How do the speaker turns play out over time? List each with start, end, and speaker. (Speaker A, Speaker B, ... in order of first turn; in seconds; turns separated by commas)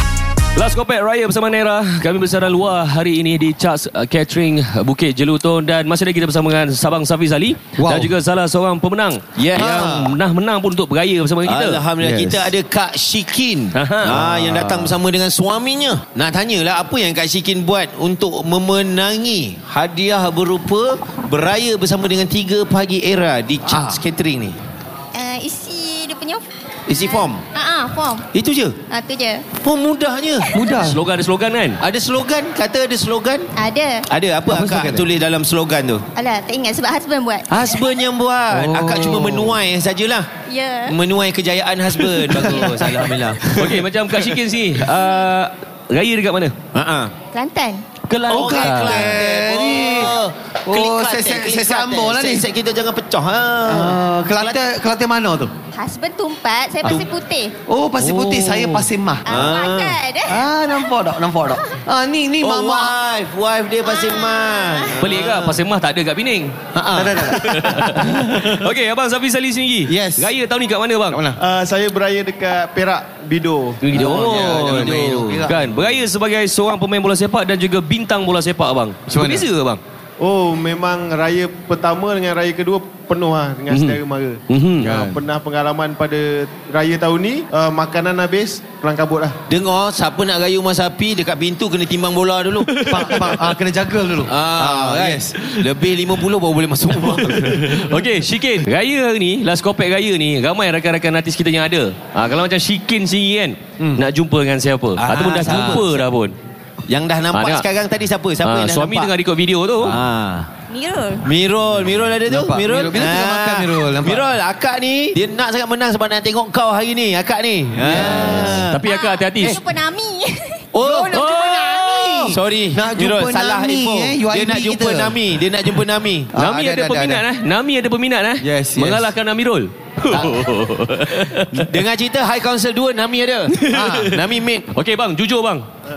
Speaker A: 0.6-11.8, Speaker B: 7.8-8.1, Speaker C: 9.4-10.1, Speaker C: 11.4-24.6, Speaker B: 12.0-12.5, Speaker A: 13.7-14.2, Speaker B: 14.1-14.9, Speaker B: 23.7-24.0, Speaker D: 25.1-26.4, Speaker C: 26.9-27.4, Speaker D: 27.1-28.2, Speaker C: 28.3-28.8, Speaker D: 28.9-29.5, Speaker C: 29.6-30.6, Speaker B: 30.5-31.0, Speaker A: 30.8-31.8, Speaker C: 31.8-33.5, Speaker D: 33.6-34.0, Speaker C: 34.1-36.0, Speaker B: 34.5-35.1, Speaker D: 36.1-37.6, Speaker C: 37.5-40.3, Speaker B: 38.5-39.6, Speaker D: 40.5-40.9, Speaker C: 40.9-43.6, Speaker B: 42.3-43.0, Speaker A: 43.5-46.5, Speaker C: 46.7-47.1, Speaker D: 47.3-47.8, Speaker A: 48.1-49.2, Speaker C: 48.3-54.6, Speaker B: 48.3-52.5, Speaker B: 53.6-55.5, Speaker D: 55.7-57.5, Speaker B: 57.7-59.4, Speaker C: 58.0-60.0, Speaker D: 59.2-60.4, Speaker B: 60.3-63.0, Speaker C: 62.4-65.6, Speaker D: 64.0-64.8, Speaker A: 64.9-66.5, Speaker B: 66.7-68.4, Speaker A: 67.2-71.2, Speaker B: 69.9-70.3, Speaker B: 71.1-71.4, Speaker E: 71.4-74.0, Speaker A: 73.8-79.8, Speaker B: 73.9-76.0, Speaker C: 74.1-75.4, Speaker B: 79.1-79.5, Speaker E: 80.2-89.4, Speaker A: 83.7-84.0, Speaker A: 84.5-84.9, Speaker B: 84.8-85.2, Speaker C: 89.5-93.2, Speaker A: 92.7-93.6, Speaker B: 92.8-95.3, Speaker C: 94.3-97.8, Speaker A: 97.0-106.3, Speaker B: 105.0-105.9, Speaker C: 105.0-106.0, Speaker C: 106.9-109.1, Speaker A: 107.3-107.6, Speaker A: 108.4-110.0, Speaker C: 109.8-110.5, Speaker D: 110.7-111.2, Speaker C: 111.2-118.8, Speaker B: 112.3-114.3, Speaker B: 117.8-118.7, Speaker A: 118.0-119.6, Speaker D: 118.8-122.0, Speaker C: 120.7-121.3, Speaker B: 120.8-125.2, Speaker A: 121.1-122.3, Speaker C: 122.2-126.7, Speaker A: 126.3-131.8, Speaker B: 126.4-127.2, Speaker B: 128.4-129.1, Speaker C: 131.5-134.7, Speaker A: 133.5-134.2, Speaker B: 133.7-134.1, Speaker A: 134.7-135.6